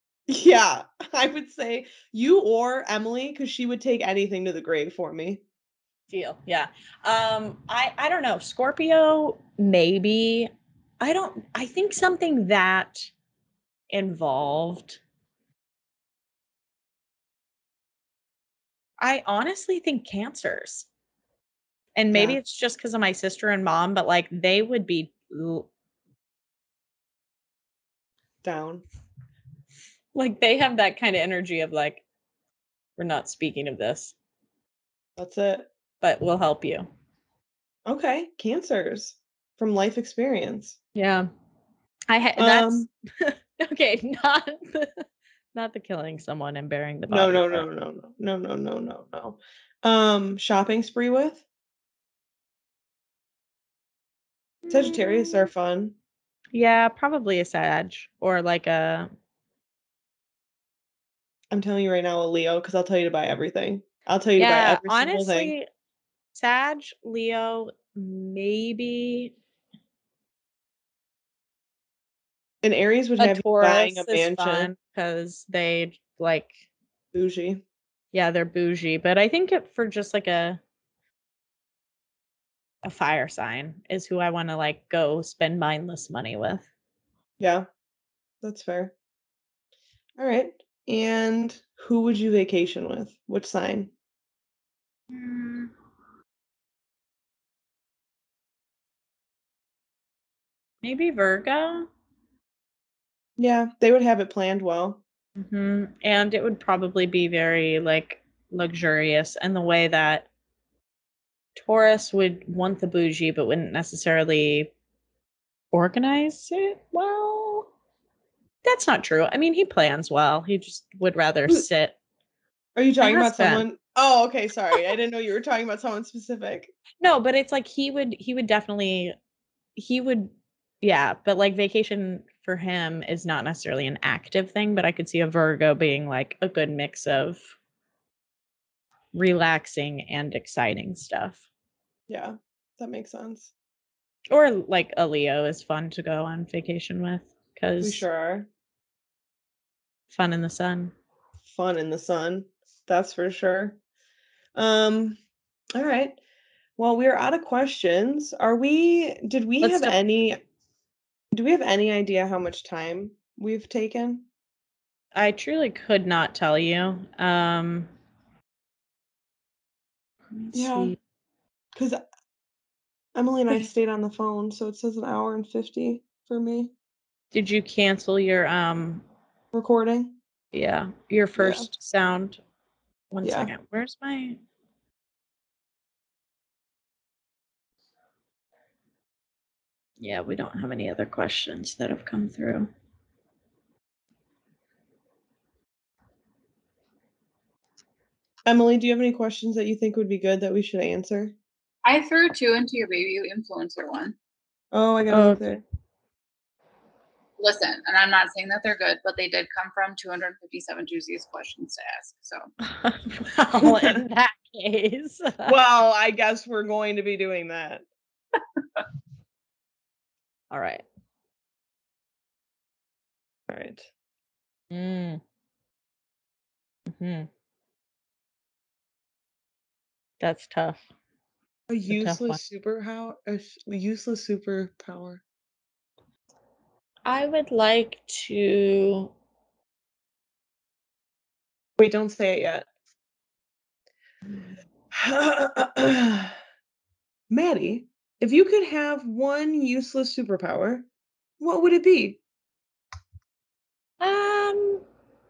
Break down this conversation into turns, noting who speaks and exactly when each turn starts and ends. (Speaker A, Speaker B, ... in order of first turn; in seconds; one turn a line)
Speaker A: 0.3-5.4
Speaker B: 6.1-13.1
Speaker B: 13.9-15.0
Speaker B: 19.0-20.9
Speaker B: 22.0-25.7
Speaker A: 22.1-22.4
Speaker A: 28.4-28.9
Speaker B: 30.1-32.0
Speaker B: 33.0-34.1
Speaker A: 35.2-35.7
Speaker B: 36.0-36.9
Speaker A: 37.9-40.8
Speaker B: 41.0-41.3
Speaker B: 42.1-47.7
Speaker A: 42.4-42.9
Speaker A: 47.1-51.5
Speaker B: 54.7-55.5
Speaker A: 54.7-56.0
Speaker B: 56.5-59.1
Speaker A: 61.5-65.5
Speaker B: 64.4-65.7
Speaker B: 66.3-69.3
Speaker A: 72.6-74.7
Speaker B: 73.2-76.6
Speaker A: 77.1-77.6
Speaker B: 78.1-80.6
Speaker B: 82.8-86.7
Speaker A: 87.4-87.7
Speaker A: 88.4-88.9
Speaker A: 90.2-93.9
Speaker B: 95.1-95.7
Speaker B: 100.8-101.9
Speaker A: 103.4-105.0
Speaker B: 105.4-110.3
Speaker B: 111.6-114.7
Speaker B: 115.7-117.7
Speaker B: 118.6-122.0
Speaker A: 122.8-126.7
Speaker B: 123.0-123.7
Speaker B: 127.0-129.2
Speaker B: 129.8-137.4
Speaker B: 139.1-141.4
Speaker A: 142.1-143.5
Speaker B: 144.3-148.1
Speaker A: 147.8-148.5
Speaker B: 150.1-150.9
Speaker A: 151.5-153.8
Speaker A: 154.6-155.2
Speaker A: 155.8-156.2
Speaker A: 156.8-160.4
Speaker B: 159.6-160.0
Speaker A: 161.3-164.3
Speaker B: 165.1-167.9
Speaker B: 170.3-171.0
Speaker A: 170.5-170.9
Speaker A: 171.8-172.0
Speaker A: 173.2-176.7
Speaker B: 177.3-179.0
Speaker A: 179.5-180.2
Speaker B: 180.5-182.4
Speaker A: 181.4-181.7
Speaker B: 183.1-184.4
Speaker A: 183.2-183.5
Speaker B: 190.0-192.7
Speaker A: 198.5-201.3
Speaker C: 201.8-204.2
Speaker A: 204.7-205.6
Speaker B: 205.1-205.6
Speaker C: 207.4-212.5
Speaker B: 212.6-215.6
Speaker A: 213.6-214.0
Speaker A: 215.4-217.8
Speaker B: 220.5-220.9
Speaker A: 223.5-223.9
Speaker B: 224.7-225.2
Speaker B: 226.9-227.3
Speaker B: 230.2-230.8
Speaker A: 231.7-235.2
Speaker B: 231.9-232.4
Speaker B: 237.1-239.1
Speaker A: 241.8-242.7
Speaker A: 244.9-246.4
Speaker A: 247.3-250.9
Speaker A: 251.4-252.2
Speaker B: 254.0-254.8